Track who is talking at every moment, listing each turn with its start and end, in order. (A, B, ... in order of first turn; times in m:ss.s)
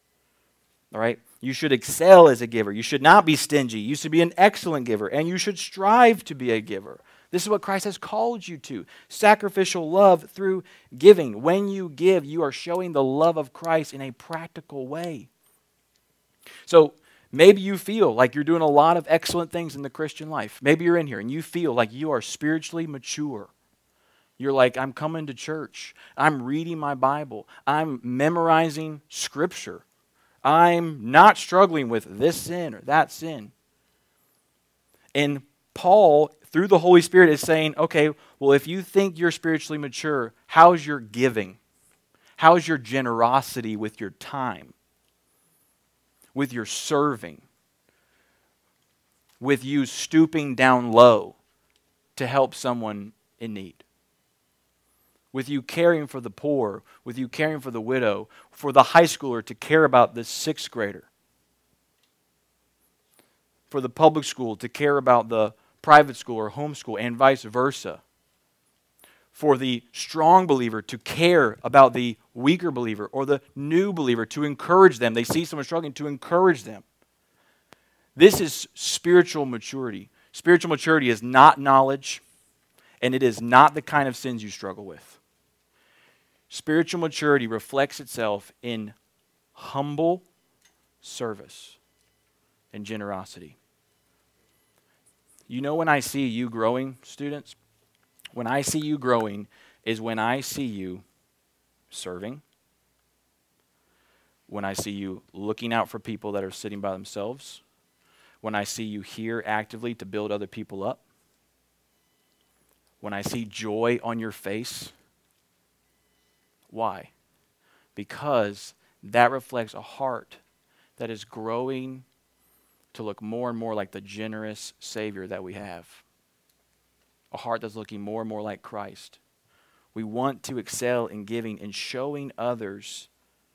0:00.9-0:15.3 A
0:16.7-0:23.5 A
0:24.4-0:29.8 A
0:30.4-0:33.5 A
0:35.1-0:41.6 A
0:42.4-0:44.7 A
0:46.3-0:47.4 A
0:49.4-0:51.4 A
0:52.2-0:53.8 A
0:55.3-1:01.1 A
1:03.7-1:08.0 A
1:09.3-1:16.8 A
1:18.2-1:22.2 A
1:23.0-1:25.2 A
1:26.5-1:28.9 A
1:29.6-1:30.2 A
1:31.0-1:31.8 A
1:32.7-1:33.6 A
1:35.5-1:37.6 A
1:38.4-1:41.0 A
1:41.9-1:42.4 A
1:44.5-1:47.6 A
1:48.4-1:51.0 A
1:53.0-1:54.9 A
1:56.7-1:57.1 A
1:58.0-2:00.4 A
2:01.0-2:02.0 A
2:02.9-2:06.0 A
2:07.3-2:09.2 A
2:09.9-2:13.1 A